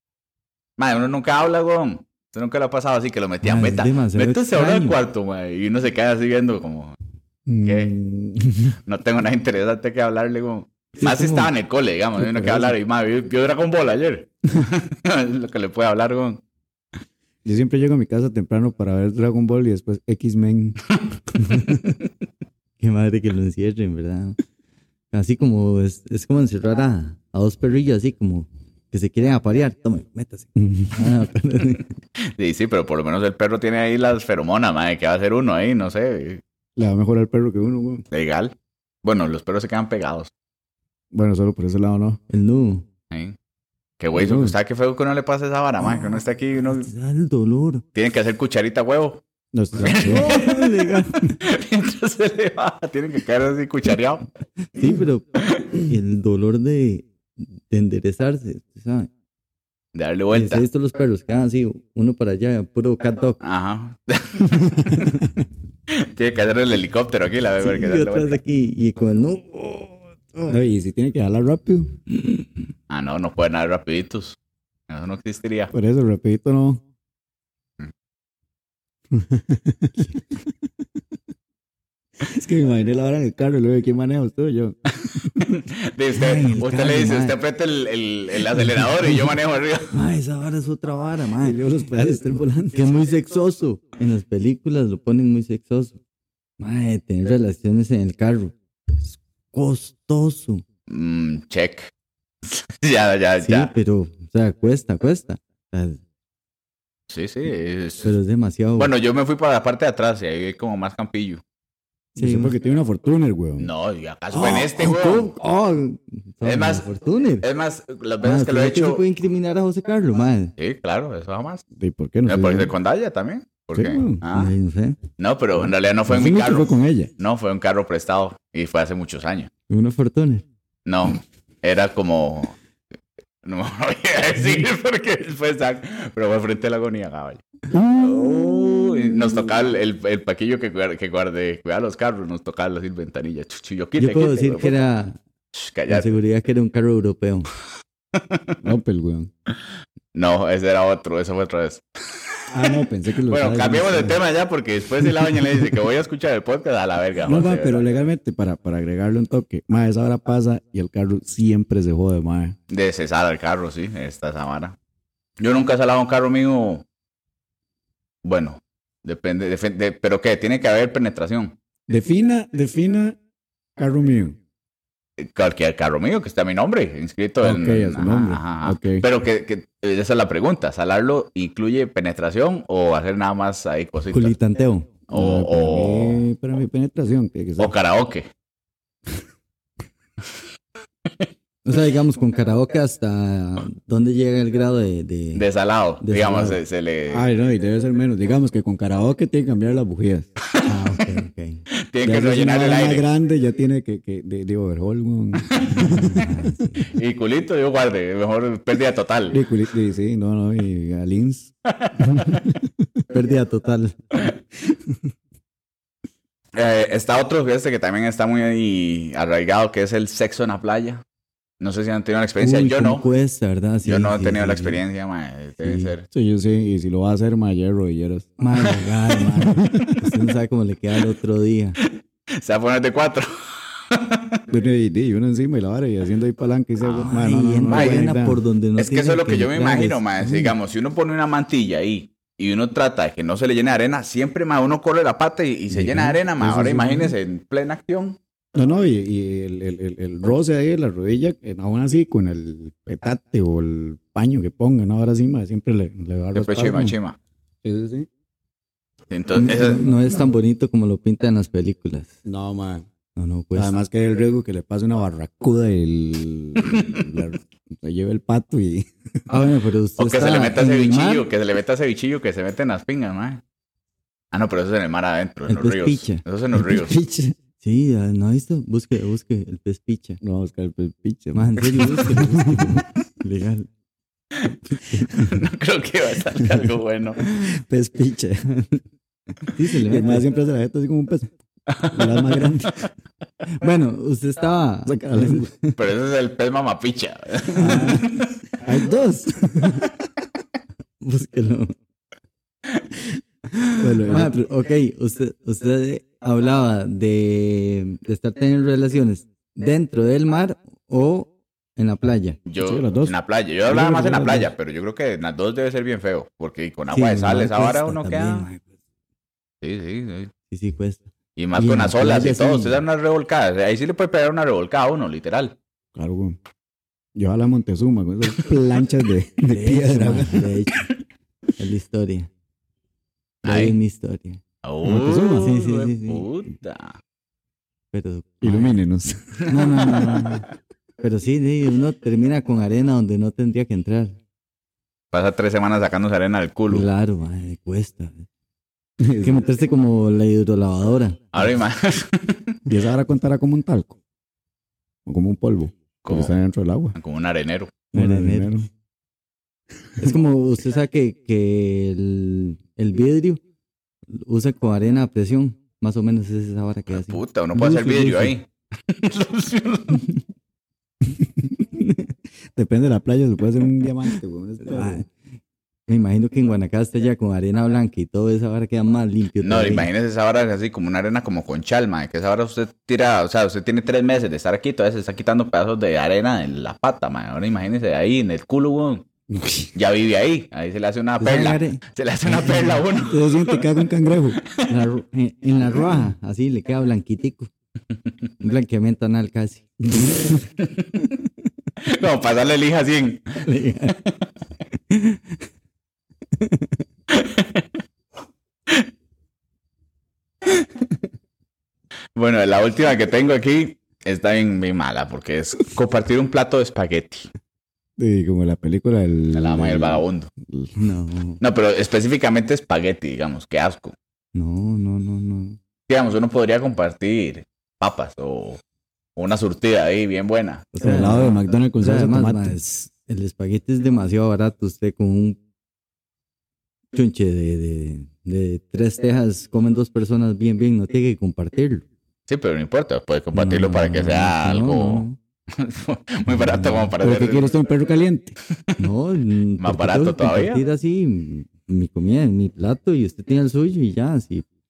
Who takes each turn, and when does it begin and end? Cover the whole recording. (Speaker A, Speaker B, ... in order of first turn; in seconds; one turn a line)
Speaker A: 0.8-7.0
Speaker B: 3.4-5.0
Speaker C: 7.5-8.8
Speaker A: 7.6-7.9
Speaker A: 8.9-16.4
Speaker B: 11.0-11.5
Speaker C: 12.3-12.7
Speaker C: 17.4-20.8
Speaker C: 21.4-21.9
Speaker B: 22.8-24.4
Speaker B: 25.1-31.9
Speaker C: 30.6-31.0
Speaker A: 32.4-36.4
Speaker C: 36.8-38.0
Speaker A: 38.1-40.3
Speaker C: 41.1-42.2
Speaker B: 42.3-42.8
Speaker A: 44.0-46.9
Speaker C: 44.1-44.5
Speaker B: 46.7-47.8
Speaker A: 47.9-49.2
Speaker C: 49.5-50.4
Speaker A: 49.8-50.6
Speaker B: 50.0-51.4
Speaker A: 51.4-54.2
Speaker B: 54.7-59.1
Speaker A: 59.9-60.6
Speaker B: 60.3-63.4
Speaker A: 63.4-65.1
Speaker A: 65.9-68.4
Speaker B: 67.6-70.6
Speaker C: 70.5-71.9
Speaker B: 72.1-72.6
Speaker A: 72.9-74.4
Speaker A: 74.9-75.7
Speaker C: 75.7-76.8
Speaker C: 79.1-80.2
Speaker C: 82.2-84.7
Speaker A: 85.4-90.0
Speaker B: 86.1-87.3
Speaker B: 88.5-89.3
Speaker B: 89.9-91.6
Speaker C: 91.4-93.0
Speaker B: 92.7-96.0
Speaker B: 96.6-100.6
Speaker A: 100.9-101.9
Speaker A: 102.5-103.7
Speaker B: 103.4-106.0
Speaker A: 107.1-108.1
Speaker B: 108.0-108.9
Speaker A: 108.8-111.4
Speaker C: 112.1-113.7
Speaker B: 112.2-112.5
Speaker A: 113.6-115.3
Speaker B: 114.3-117.4
Speaker A: 116.4-116.8
Speaker A: 117.4-119.0
Speaker B: 118.2-120.5
Speaker A: 120.6-121.6
Speaker C: 121.8-122.7
Speaker A: 122.2-124.5
Speaker C: 123.7-124.2
Speaker B: 124.3-125.0
Speaker A: 125.2-129.5
Speaker C: 126.1-127.1
Speaker B: 129.7-130.4
Speaker A: 130.8-132.6
Speaker A: 133.4-137.4
Speaker A: 137.9-144.8
Speaker B: 144.0-145.2
Speaker A: 145.5-146.2
Speaker B: 145.9-147.5
Speaker A: 148.1-148.6
Speaker C: 148.6-149.3
Speaker A: 150.1-151.8
Speaker C: 152.5-154.2
Speaker A: 153.3-157.8
Speaker C: 155.2-155.5
Speaker C: 157.2-162.6
Speaker A: 162.7-164.8
Speaker A: 165.4-166.8
Speaker A: 168.2-171.6
Speaker C: 171.9-173.2
Speaker C: 173.8-174.4
Speaker A: 175.2-184.3
Speaker C: 177.4-179.0
Speaker B: 184.1-184.9
Speaker C: 185.1-187.7
Speaker A: 185.1-186.2
Speaker A: 187.6-188.2
Speaker B: 191.6-195.4
Speaker A: 195.3-197.3
Speaker B: 196.0-196.6
Speaker C: 197.1-200.3
Speaker B: 200.7-201.6
Speaker A: 201.9-203.1
Speaker C: 202.0-206.3
Speaker A: 205.5-206.1
Speaker B: 205.8-206.8
Speaker A: 206.8-209.4
Speaker C: 209.3-213.0
Speaker A: 211.7-212.4
Speaker B: 213.1-214.0
Speaker C: 214.7-215.0
Speaker A: 216.5-221.0
Speaker A: 221.6-223.0
Speaker B: 222.4-224.8
Speaker A: 223.8-226.1
Speaker B: 225.6-225.9
Speaker C: 226.1-228.3
Speaker B: 228.4-231.8
Speaker C: 229.2-229.9
Speaker A: 231.9-233.3
Speaker A: 233.9-234.4
Speaker C: 234.5-238.4
Speaker A: 236.8-237.1
Speaker B: 237.0-240.0
Speaker A: 237.7-238.0
Speaker A: 238.8-248.2
Speaker C: 240.2-240.5
Speaker B: 245.7-246.2
Speaker C: 246.4-247.1
Speaker C: 248.5-256.9
Speaker A: 256.3-257.2
Speaker C: 257.6-258.1
Speaker A: 259.1-259.8
Speaker B: 259.3-262.1
Speaker C: 262.2-262.8
Speaker B: 263.1-263.8
Speaker C: 263.5-268.9
Speaker A: 266.6-267.1
Speaker B: 269.3-271.2
Speaker A: 270.0-273.4
Speaker A: 274.3-277.0
Speaker B: 275.5-276.2
Speaker C: 276.6-277.3
Speaker B: 277.6-280.2
Speaker C: 280.2-282.8
Speaker B: 281.3-283.7
Speaker B: 284.7-285.1
Speaker A: 285.1-287.2
Speaker C: 287.4-288.4
Speaker B: 288.5-288.8
Speaker B: 289.5-290.2
Speaker C: 289.8-291.3
Speaker A: 291.7-292.4
Speaker C: 291.9-292.9
Speaker B: 293.6-295.7
Speaker C: 294.9-295.5
Speaker A: 295.7-298.3
Speaker B: 297.6-298.0
Speaker C: 297.6-298.1
Speaker C: 298.6-300.0
Speaker B: 301.0-301.7
Speaker B: 303.7-312.4
Speaker C: 303.8-304.4
Speaker A: 312.4-318.5
Speaker C: 312.6-314.5
Speaker B: 316.9-318.6
Speaker A: 319.6-320.3
Speaker B: 320.5-321.0
Speaker A: 321.4-325.6
Speaker C: 321.6-322.8
Speaker C: 325.9-326.4
Speaker C: 327.1-330.4
Speaker B: 329.5-330.9
Speaker B: 331.6-332.3
Speaker A: 333.4-333.8
Speaker B: 333.4-334.4
Speaker A: 334.6-337.0
Speaker C: 334.9-335.5
Speaker B: 335.3-336.2
Speaker B: 337.9-338.8
Speaker C: 338.4-340.4
Speaker B: 339.5-340.4
Speaker A: 339.5-340.2
Speaker B: 341.0-344.2
Speaker A: 345.1-346.9
Speaker B: 346.7-348.2
Speaker C: 349.0-349.4
Speaker B: 349.2-351.5
Speaker A: 351.3-352.5
Speaker C: 352.7-354.0
Speaker C: 355.1-356.9
Speaker A: 356.0-356.3
Speaker A: 356.9-357.7
Speaker C: 357.9-358.7
Speaker B: 357.9-358.5
Speaker B: 360.0-363.4
Speaker B: 364.1-368.3
Speaker A: 366.9-370.1
Speaker C: 371.1-371.6
Speaker C: 372.5-375.0
Speaker B: 374.6-375.1
Speaker B: 375.9-379.9
Speaker A: 379.4-389.0
Speaker C: 389.3-389.7
Speaker A: 389.7-393.6
Speaker B: 391.2-392.8
Speaker C: 393.1-394.4
Speaker A: 394.4-394.7
Speaker B: 394.6-397.5
Speaker B: 398.4-400.4
Speaker C: 399.9-400.3
Speaker A: 400.6-401.1
Speaker A: 401.9-403.4
Speaker B: 403.4-403.9
Speaker B: 404.7-405.4
Speaker B: 406.3-406.8
Speaker A: 407.1-407.7
Speaker A: 412.1-417.3
Speaker C: 418.0-420.8
Speaker A: 419.3-420.3
Speaker B: 420.8-421.4
Speaker A: 421.4-423.9
Speaker B: 424.3-425.6
Speaker A: 425.9-428.6
Speaker A: 429.1-430.7
Speaker B: 430.7-435.4
Speaker C: 430.8-432.6
Speaker B: 436.9-441.9
Speaker A: 442.3-447.5
Speaker B: 443.3-445.2
Speaker B: 446.3-446.9
Speaker C: 447.0-448.3
Speaker B: 448.8-454.4
Speaker A: 449.6-450.6